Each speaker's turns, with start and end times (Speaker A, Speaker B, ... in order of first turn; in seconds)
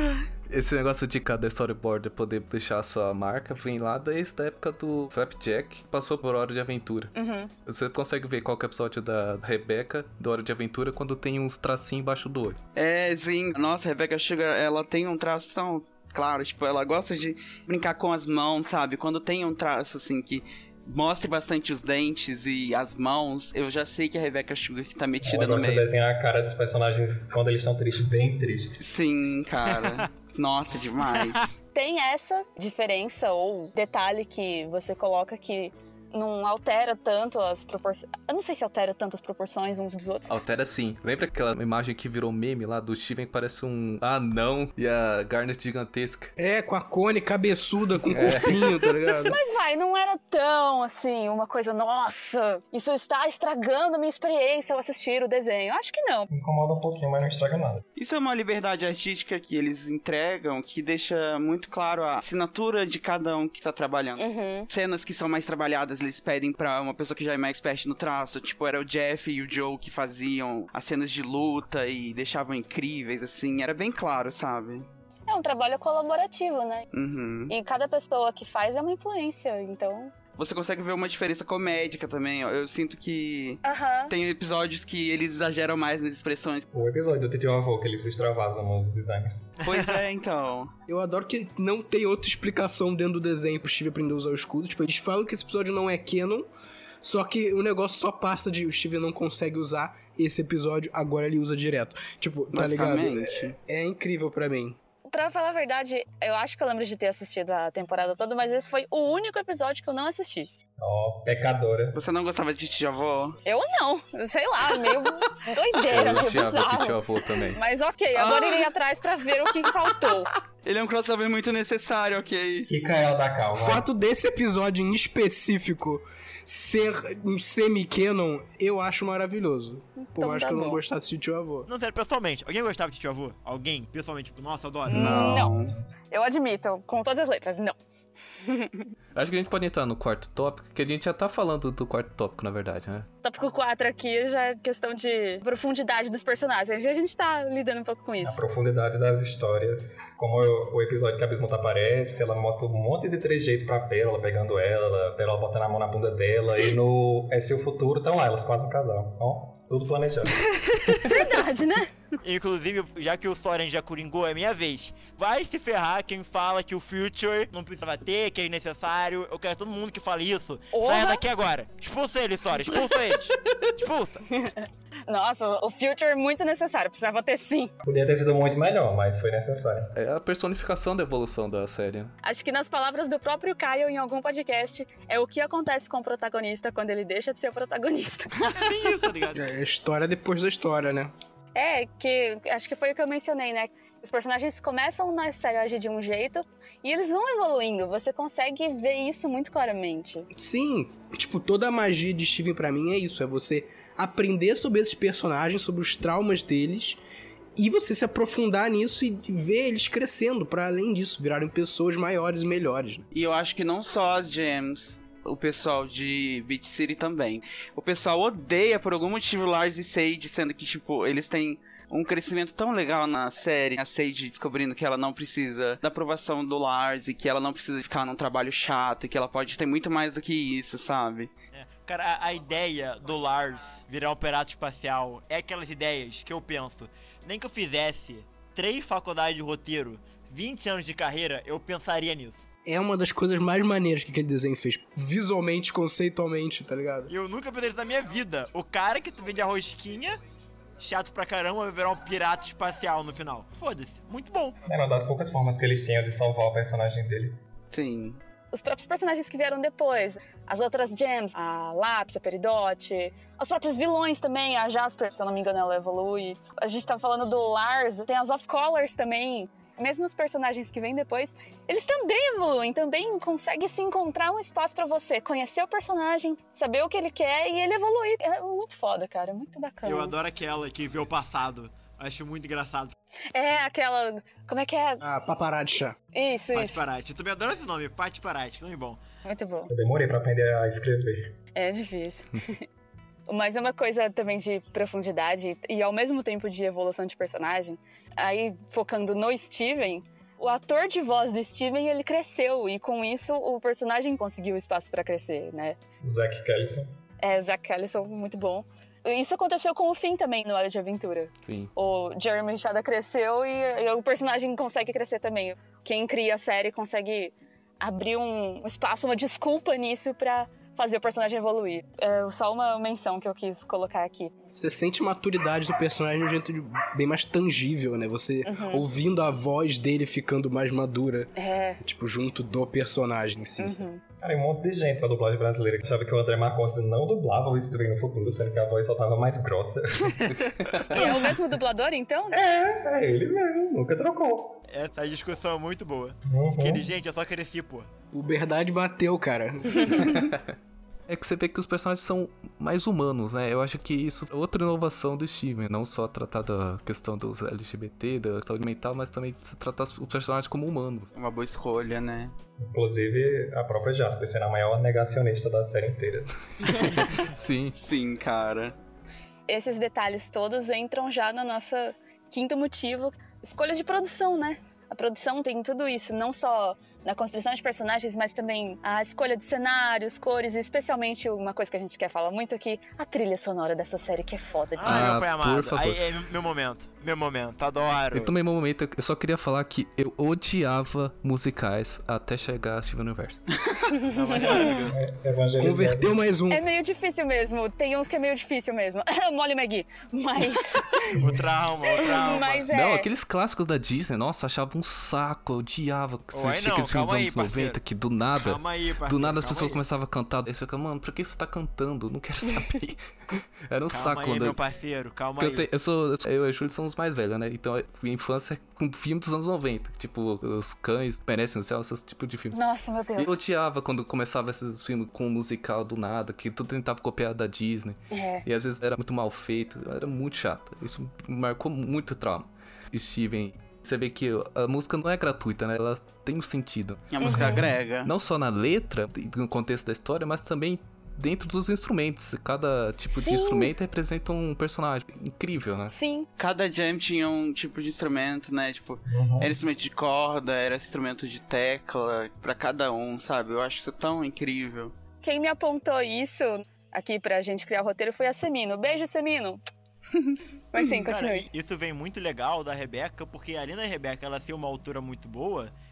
Speaker A: 0.5-7.1, 7.6-12.6, 40.3-46.3, 48.1-48.6, 115.9-117.6, 139.1-143.1, 179.9-182.1, 311.4-311.7, 340.5-341.1, 350.0-350.5, 351.1-361.1, 366.8-367.8, 384.8-386.0, 388.1-393.4, 402.6-413.0, 413.7-414.6, 415.4-422.6, 423.2-445.9
Speaker B: 7.1-7.5, 31.7-40.3, 49.0-56.3, 64.2-64.7, 75.3-76.8, 77.5-80.1, 83.6-84.1, 105.1-110.5, 113.4-117.0, 117.5-120.3, 130.0-130.8, 134.9-137.7, 138.4-138.9, 143.2-148.4, 161.0-161.9, 170.7-171.2, 174.3-177.7, 182.2-188.6, 191.5-200.3, 258.5-280.1, 283.3-285.0, 286.1-286.8, 289.2-289.7, 291.5-292.6, 293.3-305.8, 307.2-324.3, 328.4-328.8, 331.3-331.8, 333.6-334.0, 340.9-342.4, 349.7-350.2, 369.5-385.1, 394.3-394.7, 396.5-401.2, 401.9-403.1, 422.5-423.4, 428.1-428.4, 437.2-437.7, 443.1-443.7, 445.9-446.3, 455.2-459.6, 460.7-461.5
Speaker C: 12.7-25.9, 28.8-31.5, 58.0-74.9, 76.9-77.5, 80.4-86.6, 89.6-90.7, 102.5-103.5, 111.9-113.3, 118.2-118.7, 119.6-122.7, 134.9-135.7, 213.1-231.3, 257.7-258.2, 361.1-362.3, 367.8-368.8, 394.2-394.9, 437.1-438.1, 446.4-454.9
Speaker D: 25.2-28.8, 56.3-57.8, 86.7-89.5, 110.8-112.0, 122.7-123.8, 148.2-160.5, 177.8-179.9, 254.7-257.4, 289.7-291.3, 306.0-306.9, 334.2-340.4, 342.3-344.6, 346.3-346.9, 362.6-366.7, 394.9-396.2, 401.1-401.4, 449.1-449.6
Speaker E: 29.7-30.0, 31.1-31.4, 89.6-90.0, 131.7-135.4, 162.2-174.3, 188.5-189.5, 231.5-242.4, 247.1-250.2, 250.8-254.6, 279.8-282.9, 286.5-289.0, 344.7-347.9, 384.8-388.3, 394.1-394.9, 401.1-402.6, 406.3-407.8, 408.3-409.8, 413.9-415.7, 460.9-465.7
Speaker F: 46.4-49.4, 90.9-96.5, 97.0-104.8, 123.5-131.7, 189.3-191.1, 200.3-207.0, 207.6-213.0, 242.7-247.1, 285.0-286.0, 324.5-333.8, 348.1-350.2, 395.6-396.6